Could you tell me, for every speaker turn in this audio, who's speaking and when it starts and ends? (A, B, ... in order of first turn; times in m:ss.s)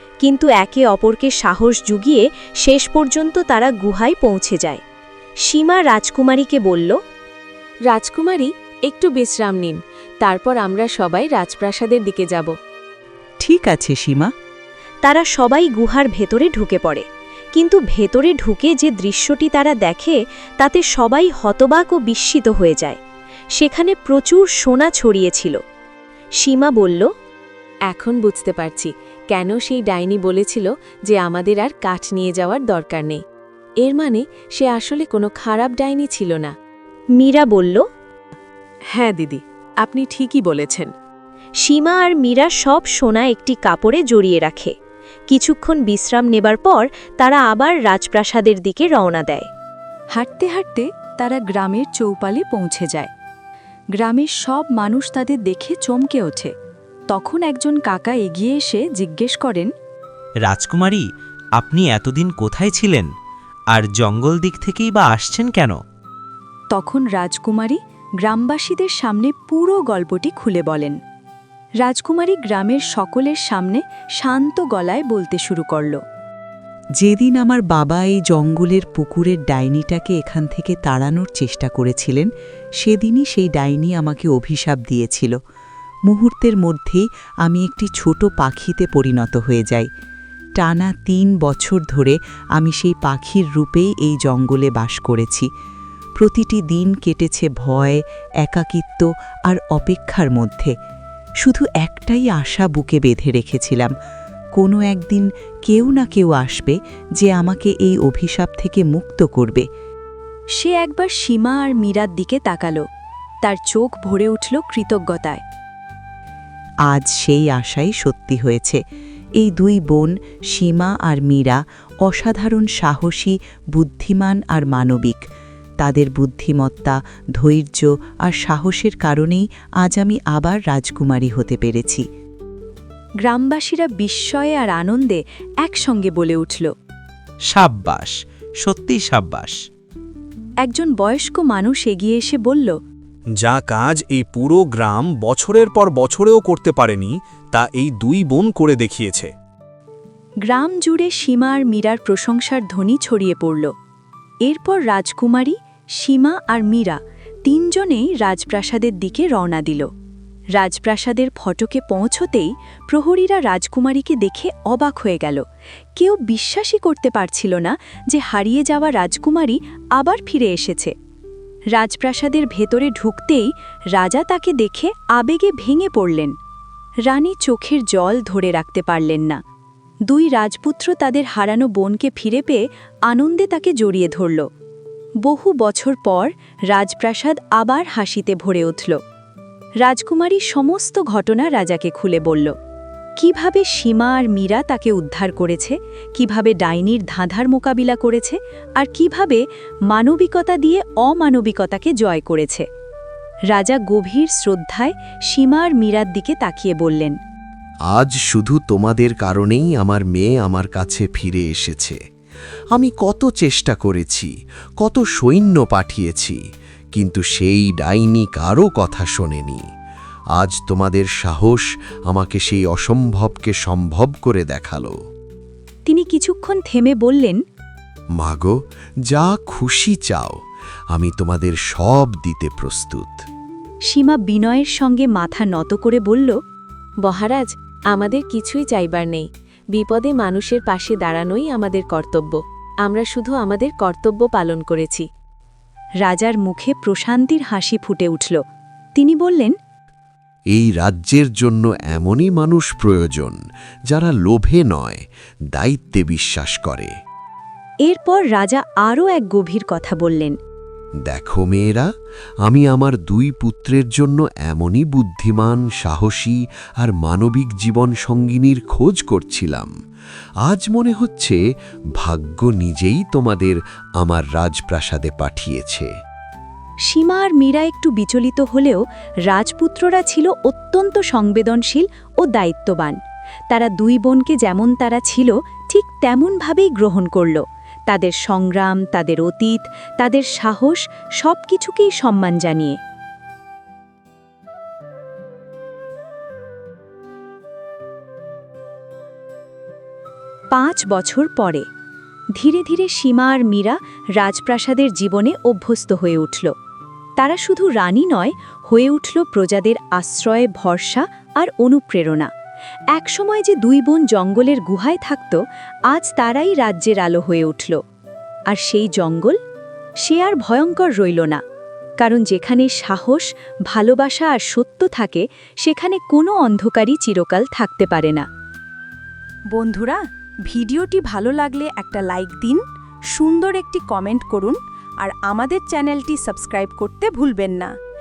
0:00.2-0:04.8 A
0:05.4-0:07.0 A
0:07.9-0:12.5 B
0:13.4-0:14.3 C
0:15.0-0:17.0 A
0:17.5-0:23.0 A
0:23.5-0:25.6 A
0:26.4-0:27.1 A
0:27.9-0:33.2 B
0:33.8-0:36.5 B
0:37.2-0:37.8 A
0:39.0-0:40.9 B
0:41.6-0:44.7 A
0:45.3-0:49.5 A
0:50.1-0:53.1 A
0:54.0-0:56.5 A
0:57.1-0:59.7 A
1:00.4-1:03.1 D
1:03.7-1:05.8 D
1:06.7-1:11.0 A
1:11.8-1:16.0 A
1:17.0-1:22.3 C
1:22.8-1:25.3 C
1:26.1-1:29.9 C
1:30.6-1:35.5 C
1:36.2-1:40.7 C
1:41.4-1:43.9 C
1:44.6-1:49.6 C
1:50.6-1:52.8 A
1:53.4-1:55.4 A
1:56.9-1:58.8 C
1:59.4-2:05.2 C
2:05.8-2:12.0 C
2:13.2-2:16.7 A
2:17.5-2:19.6 D
2:20.6-2:22.7 A
2:23.4-2:29.3 E
2:30.5-2:33.7 A
2:34.4-2:39.9 A
2:40.6-2:45.4 A
2:46.0-2:50.9 A
2:51.7-2:56.3 A
2:57.1-2:59.4 A
3:00.1-3:04.4 A
3:05.2-3:09.0 A
3:09.8-3:12.5 A
3:13.2-3:22.6 A
3:23.5-3:27.2 A
3:27.9-3:32.0 F
3:32.7-3:36.4 F
3:36.9-3:39.6 F
3:40.4-3:44.9 F
3:45.9-3:47.4 A
3:48.2-3:48.5 F
3:49.1-3:50.4 F
3:50.9-3:53.2 F
3:53.9-3:56.4 A
3:57.1-3:57.4 A
3:58.0-3:59.2 A
3:59.9-4:02.2 A
4:02.9-4:05.0 A
4:06.0-4:08.4 A
4:09.0-4:09.5 A
4:10.5-4:13.4 F
4:13.9-4:15.0 F
4:15.5-4:16.9 F
4:17.8-4:20.4 A
4:21.1-4:21.8 F
4:22.4-4:29.7 F
4:30.4-4:31.4 F
4:32.0-4:35.9 F
4:36.9-4:43.0 A
4:43.5-4:52.8 A
5:00.5-5:01.6 A
5:02.3-5:06.5 A
5:07.2-5:12.3 A
5:12.9-5:17.8 A
5:18.5-5:19.4 A
5:20.0-5:21.4 A
5:22.0-5:28.2 A
5:29.5-5:37.7 A